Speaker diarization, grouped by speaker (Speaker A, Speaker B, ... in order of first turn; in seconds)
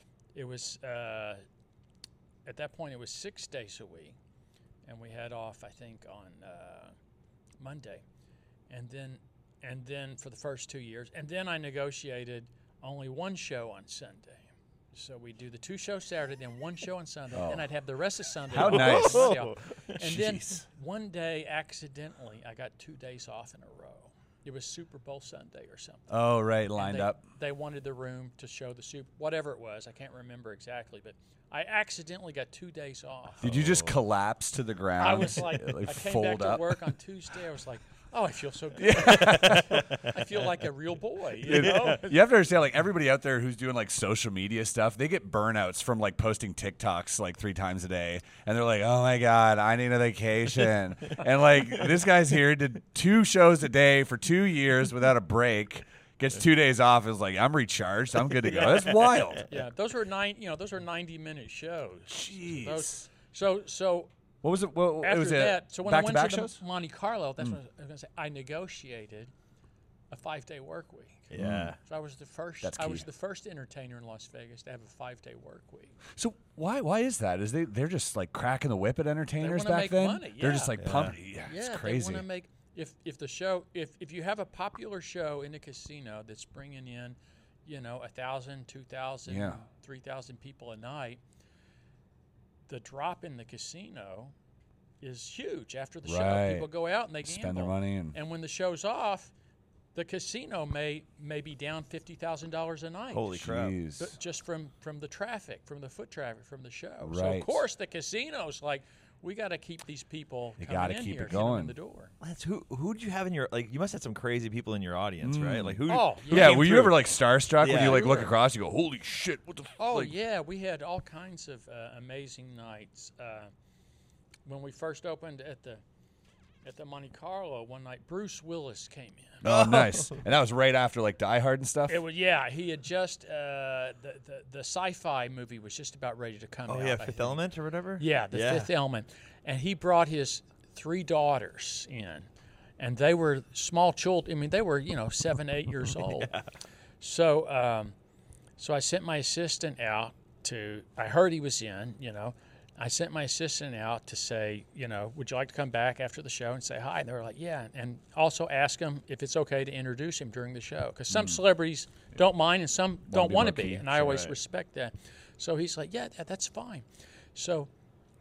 Speaker A: 0.3-1.4, 2.5-4.2, 4.8-6.9, 7.6-8.0, 8.7-26.1, 26.8-33.5, 35.0-42.2, 59.5-64.1, 65.0-69.3, 70.1-71.3, 71.8-76.0, 79.4-80.8, 81.4-91.2, 92.7-94.3, 95.0-99.3, 99.9-103.3, 104.0-112.1, 115.9-116.9, 117.7-118.2, 119.8-123.5, 124.5-125.8, 126.6-129.4, 131.9-137.4, 138.0-142.3, 142.8-146.3, 147.0-147.9, 148.6-167.7
Speaker B: 17.3-17.6, 18.5-19.4, 20.0-20.6, 26.1-27.2, 33.4-36.8, 38.8-39.9, 41.4-59.5, 62.1-63.0, 64.4-66.6, 71.4-71.7, 72.6-73.0, 76.2-82.2, 89.3-89.6, 96.0-96.7, 97.2-98.2, 103.3-104.1, 107.0-107.6, 110.6-111.7, 115.2-120.1, 129.4-132.0, 161.1-161.4, 163.1-164.2
Speaker C: 18.6-19.8, 33.4-34.0, 41.5-41.9, 58.7-59.4, 71.3-71.8, 80.8-81.2, 103.1-103.8, 112.2-117.0, 117.6-118.3, 129.4-130.2, 136.7-138.7, 146.0-146.4, 164.0-164.3